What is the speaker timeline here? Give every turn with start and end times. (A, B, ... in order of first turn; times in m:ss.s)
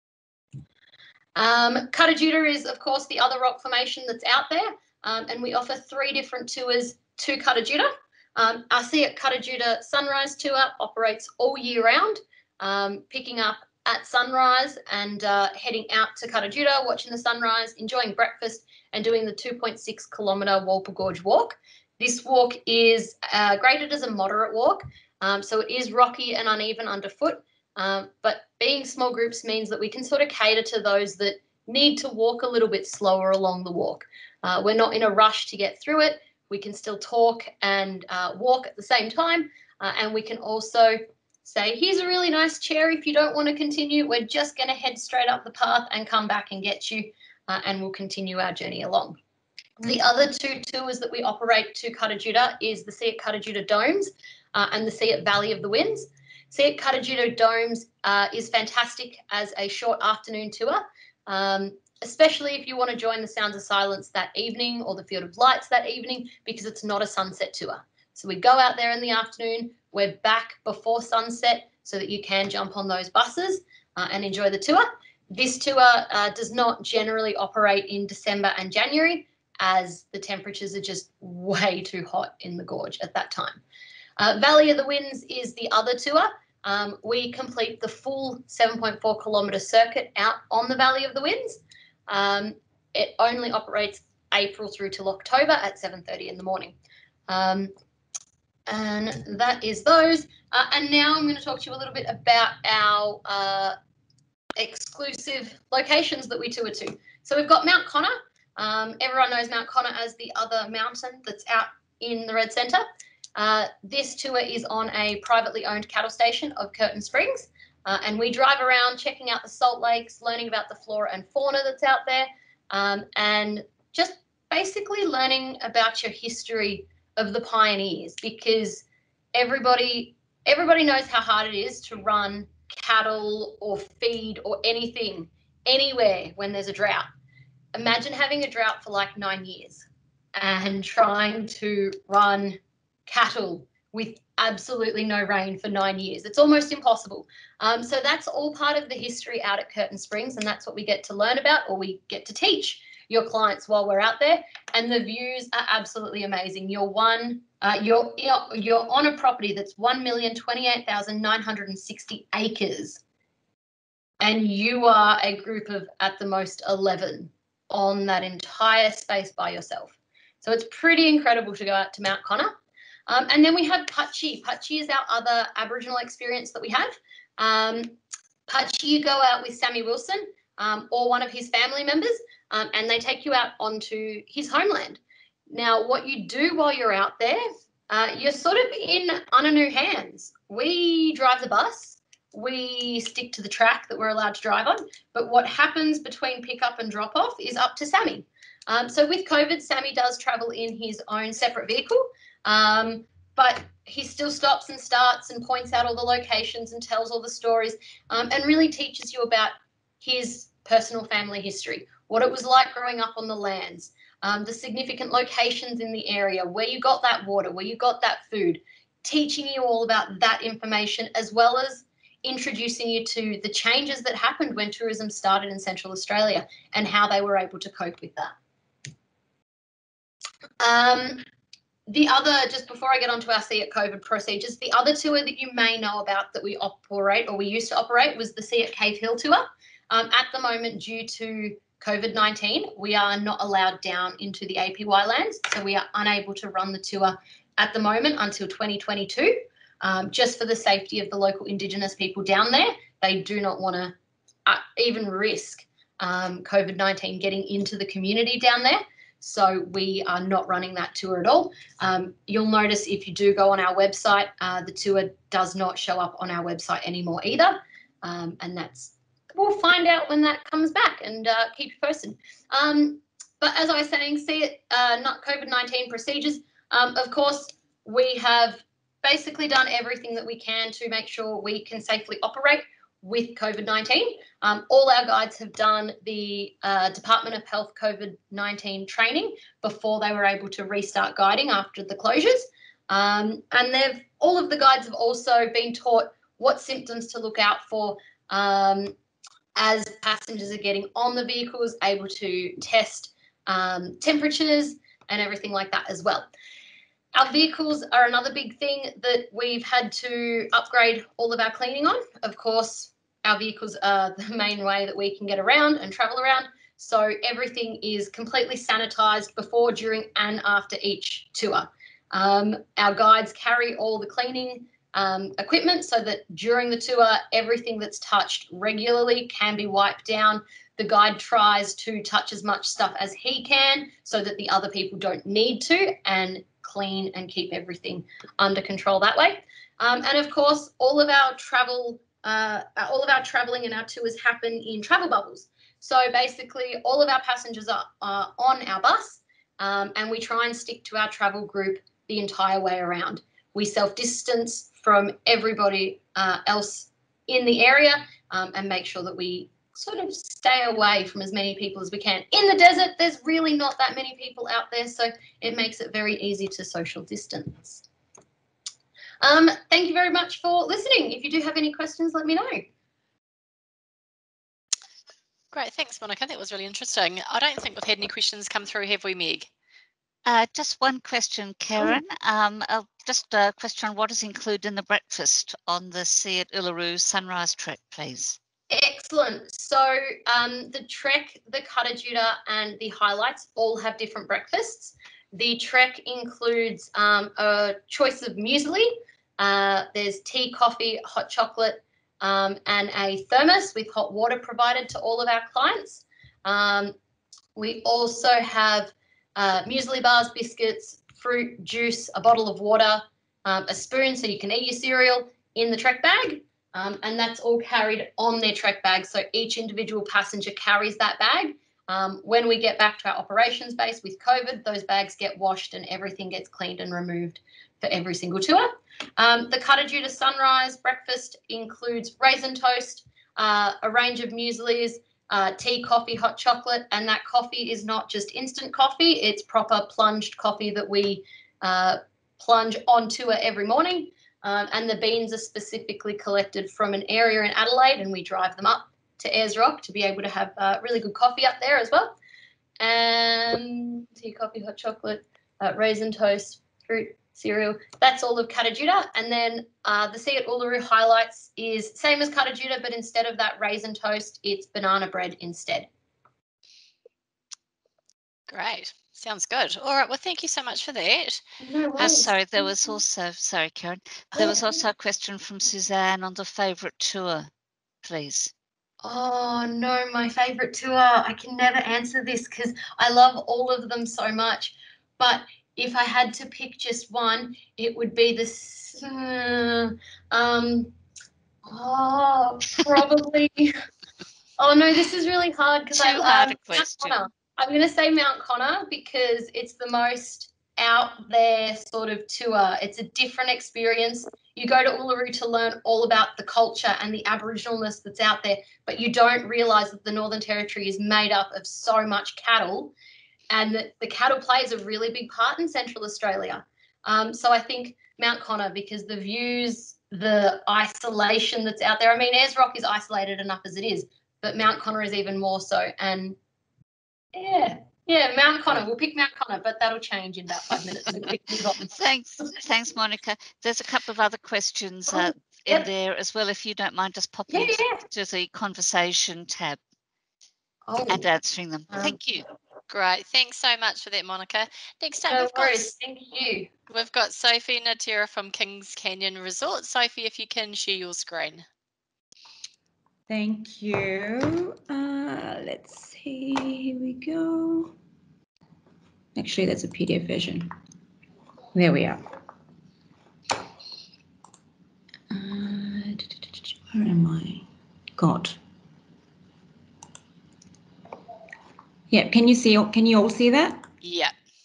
0:01.4-0:49.2 A
0:49.8-1:23.6 A
1:24.2-1:36.7 A
1:37.3-1:37.7 A
1:38.7-1:43.7 A
1:44.6-1:52.8 A
1:53.4-2:17.0 A
2:17.7-2:43.0 A
2:44.2-2:52.5 A
2:53.1-2:58.0 A
2:58.5-3:05.0 A
3:05.5-3:48.3 A
3:50.6-3:51.2 A
3:51.9-4:13.9 A
4:14.4-4:58.9 A
4:59.6-5:06.3 A
5:07.1-6:07.8 A
6:09.2-6:12.6 A
6:15.5-6:19.5 B
6:20.2-6:28.4 C
6:28.7-6:46.9 A
6:47.6-7:32.2 A
7:32.8-7:45.9 A
7:48.5-7:51.4 B
7:51.6-7:53.0 A
7:52.0-7:57.5 C
7:54.4-7:54.8 A
7:58.0-7:58.5 C
7:59.0-8:10.9 A
8:11.7-8:13.7 A
8:14.6-8:32.9 A
8:15.9-8:17.1 C
8:33.5-8:46.4 A
8:47.3-8:51.9 A
8:51.9-8:59.8 C
8:55.1-8:55.9 A
8:57.5-8:58.0 A
9:00.9-9:01.3 A
9:01.1-9:02.4 C
9:01.9-9:02.2 A
9:02.9-9:05.9 B
9:05.3-9:06.7 A
9:06.9-9:11.6 B
9:13.3-9:17.9 D
9:19.4-9:20.7 D
9:21.7-9:22.2 D
9:25.3-9:27.6 D
9:28.2-9:28.6 D
9:32.1-9:33.9 D
9:34.0-9:34.3 B